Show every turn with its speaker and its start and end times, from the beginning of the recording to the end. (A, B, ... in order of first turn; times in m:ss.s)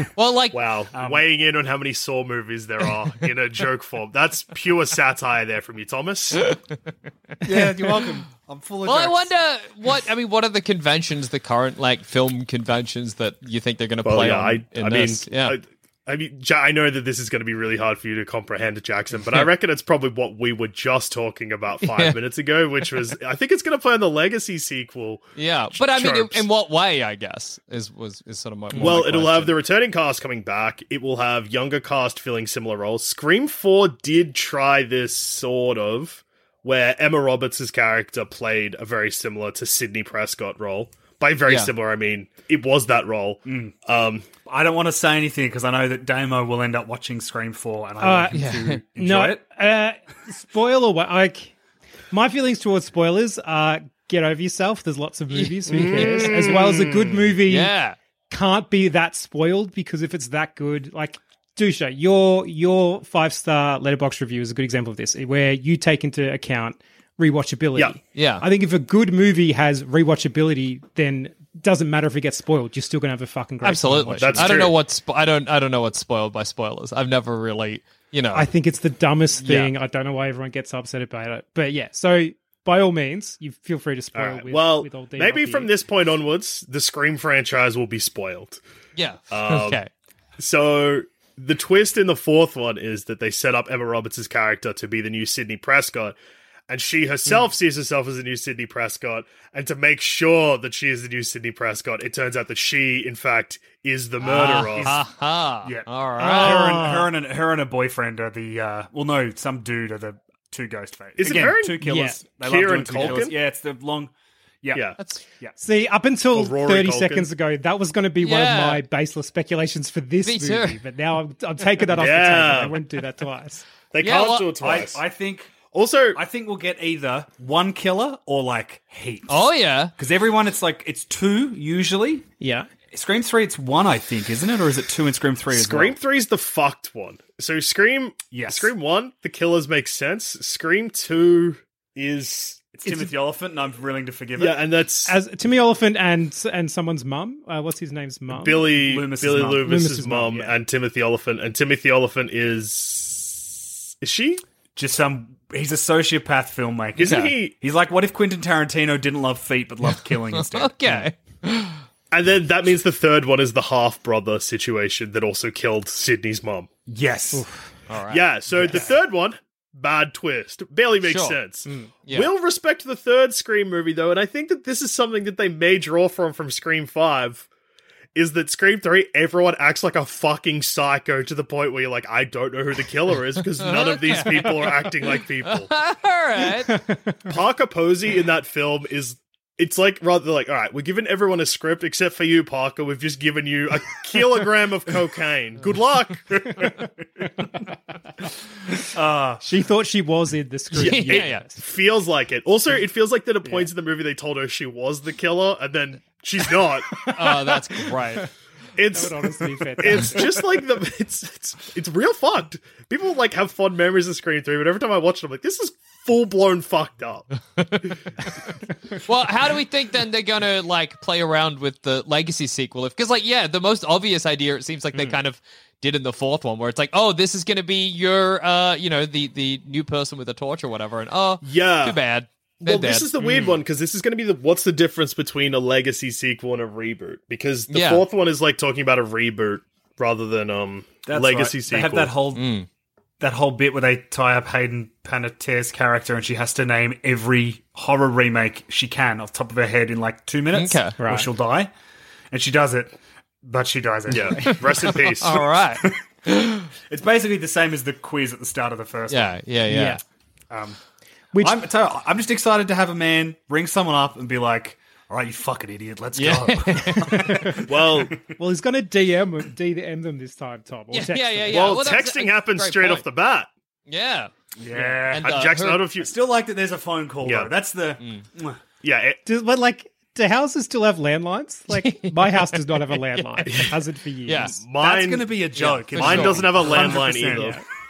0:00.2-0:00.7 A
0:00.5-0:06.5 B
0:00.9-0:01.3 C
0:07.4-0:09.3 C
0:08.9-0:15.6 A
0:14.0-0:26.4 B
0:21.8-0:22.2 A
0:25.4-0:29.6 A
0:28.7-0:29.0 D
0:28.8-0:44.3 B
0:41.5-0:41.7 A
0:43.4-0:43.7 C
0:44.4-0:49.4 C
0:48.0-0:48.4 D
0:48.3-0:48.8 A
0:49.0-0:51.5 D
0:52.1-0:57.7 D
0:55.3-0:56.4 A
0:55.7-0:57.3 B
0:57.5-0:58.0 A
0:58.3-1:14.6 D
1:08.2-1:08.4 A
1:13.6-1:18.5 A
1:14.2-1:14.8 B
1:18.3-1:25.7 D
1:19.4-1:19.7 A
1:24.2-1:28.6 B
1:29.0-1:29.9 A
1:29.3-1:29.8 B
1:30.4-1:36.2 B
1:36.7-1:44.9 B
1:44.2-1:45.0 C
1:44.4-1:46.7 A
1:45.6-1:54.1 C
1:46.2-1:47.1 D
1:51.2-1:53.4 B
1:51.8-1:52.2 D
1:54.6-1:55.6 C
1:55.6-2:03.6 D
1:56.3-1:57.3 B
1:58.2-1:58.8 A
2:00.2-2:00.8 A
2:02.0-2:02.8 B
2:03.9-2:05.0 B
2:04.0-2:04.6 A
2:04.6-2:05.6 C
2:05.7-2:06.2 B
2:06.2-2:12.3 C
2:09.3-2:09.9 A
2:12.4-2:12.7 D
2:12.9-2:16.0 C
2:15.5-2:22.6 B
2:18.3-2:18.7 C
2:22.7-2:24.6 C
2:24.4-2:25.2 B
2:25.0-2:28.8 D
2:28.3-2:34.4 B
2:28.7-2:29.7 C
2:29.6-2:30.6 D
2:34.8-2:40.8 C
2:37.0-2:37.6 B
2:37.0-2:37.3 A
2:40.4-2:41.8 A
2:42.1-2:46.7 B
2:46.9-2:47.4 C
2:47.9-2:48.7 A
2:48.1-2:57.5 B
2:51.0-2:51.4 A
2:51.7-2:51.9 D
2:52.1-2:52.3 A
2:58.2-3:05.7 B
3:03.6-3:06.8 A
3:06.7-3:07.2 D
3:07.3-3:16.8 B
3:18.8-3:19.4 C
3:19.4-3:21.6 D
3:20.7-3:21.5 A
3:20.8-3:27.1 B
3:27.1-3:28.3 A
3:28.8-3:37.3 B
3:28.9-3:30.3 D
3:39.0-3:53.6 A
3:51.4-3:52.0 B
3:52.6-4:02.2 B
3:57.7-3:58.0 A
4:01.0-4:02.6 C
4:02.3-4:02.7 A
4:03.2-4:11.7 C
4:10.5-4:11.0 A
4:11.0-4:11.3 D
4:12.3-4:15.0 C
4:14.1-4:15.5 B
4:14.4-4:16.7 A
4:16.9-4:19.4 C
4:19.1-4:20.0 A
4:19.7-4:20.0 D
4:20.5-4:20.8 C
4:21.3-4:21.6 D
4:21.4-4:28.2 C
4:26.2-4:27.4 A
4:27.1-4:27.6 D
4:27.7-4:28.2 B
4:28.4-4:31.8 D
4:30.9-4:33.0 A
4:31.5-4:33.5 B
4:33.9-4:35.9 A
4:34.6-4:35.4 C
4:35.2-4:36.1 B
4:36.0-4:38.6 C
4:37.2-4:37.5 B
4:38.8-4:39.2 B
4:39.2-4:44.6 D
4:41.7-4:43.7 A
4:44.3-4:44.6 A
4:44.6-4:47.6 B
4:44.8-4:47.6 C
4:45.6-4:46.8 A
4:47.1-4:47.6 D